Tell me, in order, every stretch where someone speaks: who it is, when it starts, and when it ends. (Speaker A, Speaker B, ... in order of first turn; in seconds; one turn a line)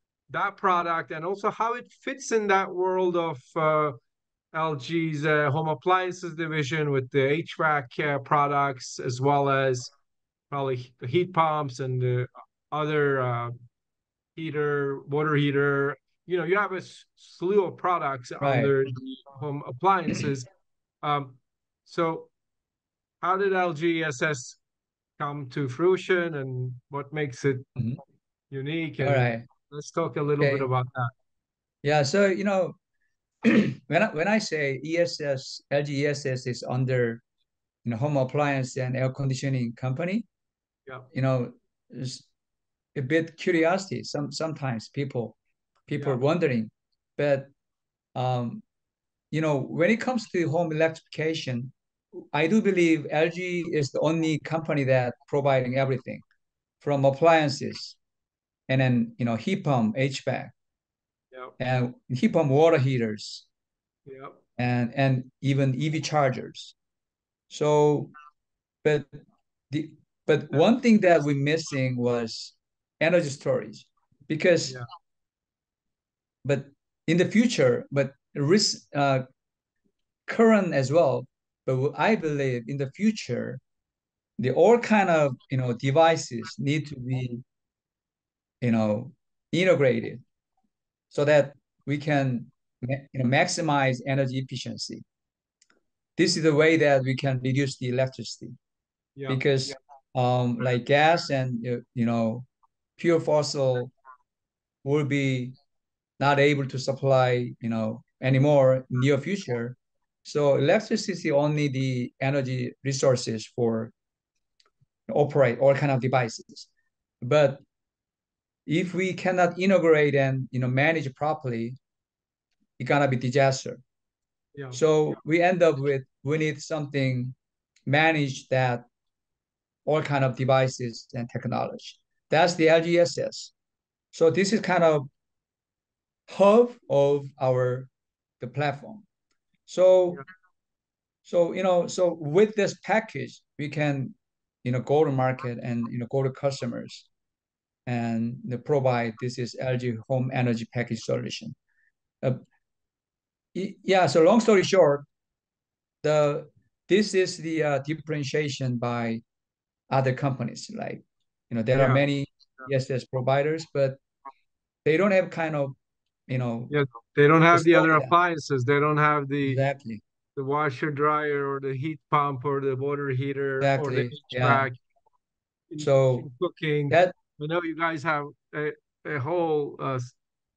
Speaker A: 0.3-4.0
Speaker A: 4.5-9.9
Speaker A: 10.5-13.5
Speaker A: 14.4-20.5
Speaker B: 18.4-18.7
Speaker A: 21.0-22.3
Speaker A: 23.2-24.6
Speaker A: 25.2-27.7
Speaker A: 28.5-31.1
Speaker B: 29.0-29.5
Speaker B: 30.4-30.7
Speaker B: 31.8-32.8
Speaker B: 33.4-37.2
Speaker B: 37.9-40.3
Speaker B: 41.1-42.3
Speaker B: 43.0-47.5
Speaker B: 48.1-48.6
Speaker B: 49.3-56.2
Speaker B: 56.8-58.0
Speaker B: 58.7-60.5
Speaker B: 61.6-63.5
Speaker A: 64.1-64.4
Speaker B: 64.6-66.8
Speaker B: 67.5-68.1
Speaker B: 68.8-69.2
Speaker B: 69.7-74.8
Speaker B: 76.4-79.2
Speaker B: 80.3-83.6
Speaker B: 84.4-87.4
Speaker B: 88.6-90.2
Speaker B: 91.1-95.0
Speaker B: 96.2-98.6
Speaker A: 99.2-99.7
Speaker B: 99.3-104.0
Speaker B: 104.8-105.6
Speaker B: 106.2-113.9
Speaker B: 115.1-116.7
Speaker B: 117.2-117.6
Speaker B: 118.7-121.8
Speaker B: 122.8-123.8
Speaker A: 124.6-124.8
Speaker B: 124.7-127.3
Speaker B: 127.9-128.9
Speaker B: 129.9-133.5
Speaker B: 134.1-135.1
Speaker B: 136.3-139.1
Speaker B: 139.7-140.2
Speaker B: 141.2-147.1
Speaker B: 147.9-151.6
Speaker B: 153.5-155.1
Speaker B: 156.0-159.2
Speaker B: 159.9-164.0
Speaker A: 161.8-162.0
Speaker B: 164.8-165.8
Speaker B: 166.3-166.8
Speaker A: 166.7-169.6
Speaker B: 167.5-168.1
Speaker B: 169.4-170.0
Speaker A: 170.4-174.8
Speaker B: 173.6-174.7
Speaker A: 175.7-180.2
Speaker B: 175.8-176.3
Speaker B: 176.9-177.2